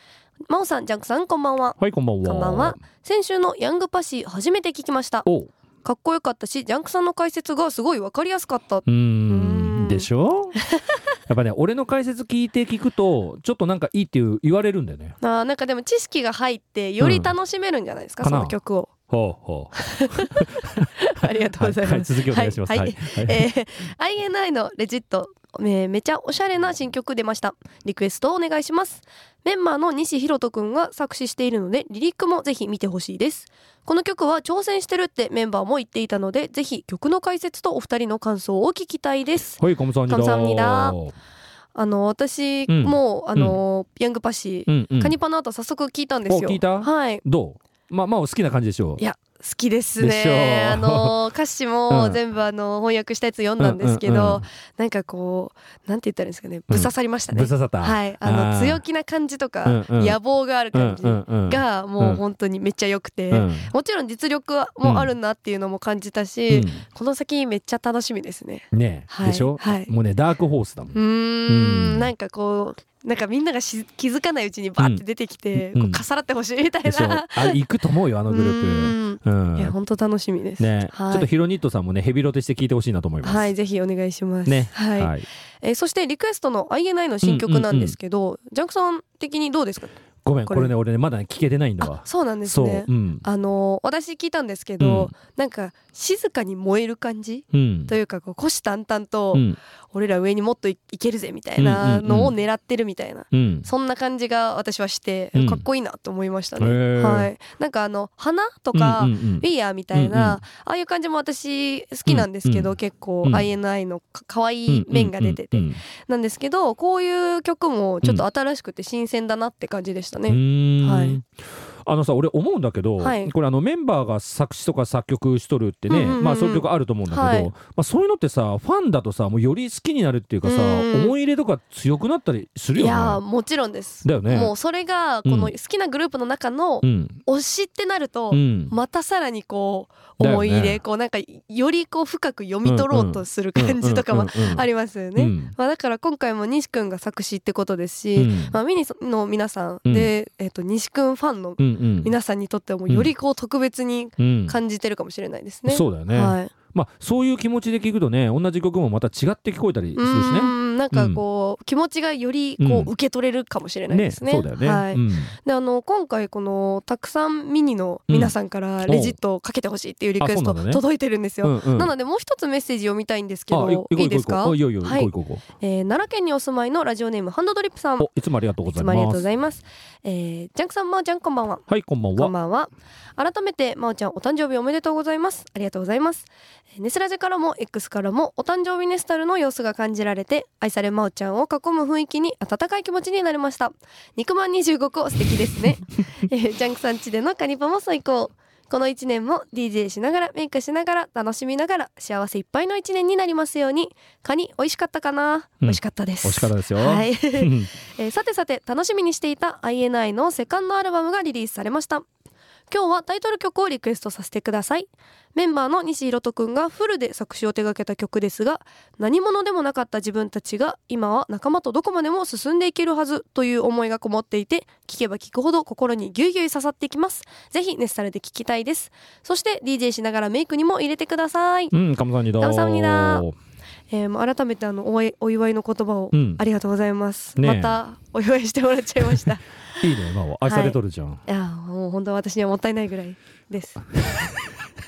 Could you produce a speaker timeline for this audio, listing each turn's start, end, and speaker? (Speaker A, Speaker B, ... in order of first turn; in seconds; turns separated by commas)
Speaker A: 0.5-5.3, Speaker B: 1.8-2.8, Speaker A: 5.8-11.0, Speaker B: 8.8-10.6, Speaker B: 11.3-15.2, Speaker A: 15.2-18.9, Speaker B: 17.0-17.3, Speaker B: 18.2-18.5, Speaker B: 19.1-23.4, Speaker A: 19.8-41.0, Speaker B: 39.6-41.1, Speaker A: 41.7-47.2, Speaker B: 42.7-43.6, Speaker B: 44.7-45.1, Speaker B: 46.3-49.0, Speaker A: 49.0-69.9, Speaker B: 50.0-51.2, Speaker B: 51.9-52.2, Speaker B: 53.6-54.4, Speaker B: 56.7-58.8, Speaker B: 59.6-60.2, Speaker B: 60.7-62.2, Speaker B: 63.3-63.7, Speaker B: 64.8-65.1, Speaker B: 66.5-66.8, Speaker B: 68.7-71.0, Speaker A: 70.9-77.6, Speaker B: 71.5-72.1, Speaker B: 75.5-76.0, Speaker B: 76.8-79.7, Speaker A: 78.3-81.3, Speaker B: 80.6-83.5, Speaker A: 83.2-89.9, Speaker B: 84.5-85.2, Speaker B: 87.2-88.0, Speaker B: 90.2-93.2, Speaker A: 90.5-90.7, Speaker A: 91.8-121.2, Speaker B: 94.8-95.1, Speaker B: 97.5-97.9, Speaker B: 99.3-99.6, Speaker B: 101.6-102.3, Speaker B: 103.3-103.7, Speaker B: 105.3-105.6, Speaker B: 106.6-107.3, Speaker B: 108.7-110.4, Speaker B: 112.1-113.5, Speaker B: 114.7-115.8, Speaker B: 120.3-121.3, Speaker B: 121.8-133.2, Speaker A: 123.0-123.3, Speaker A: 125.9-127.5, Speaker A: 130.4-131.1, Speaker A: 132.8-156.5, Speaker B: 134.0-134.5, Speaker B: 135.2-135.5, Speaker B: 136.8-137.2, Speaker B: 138.3-138.7, Speaker B: 140.2-140.8, Speaker B: 142.6-145.5, Speaker B: 148.1-148.6, Speaker B: 149.8-150.1, Speaker B: 151.6-152.1, Speaker B: 154.2-154.6, Speaker B: 155.7-161.2, Speaker A: 159.9-178.1, Speaker B: 162.6-162.9, Speaker B: 163.9-165.3, Speaker B: 168.1-169.2, Speaker B: 170.2-170.8, Speaker B: 171.4-171.9, Speaker B: 173.5-175.4, Speaker B: 178.0-179.3, Speaker A: 178.6-212.1, Speaker B: 181.7-182.3, Speaker B: 205.6-207.7, Speaker A: 212.7-231.8, Speaker B: 231.7-233.3, Speaker A: 232.4-233.2, Speaker A: 233.9-239.4, Speaker B: 236.1-236.4, Speaker B: 237.4-237.8, Speaker B: 239.8-241.2, Speaker A: 240.4-243.8, Speaker B: 244.1-244.3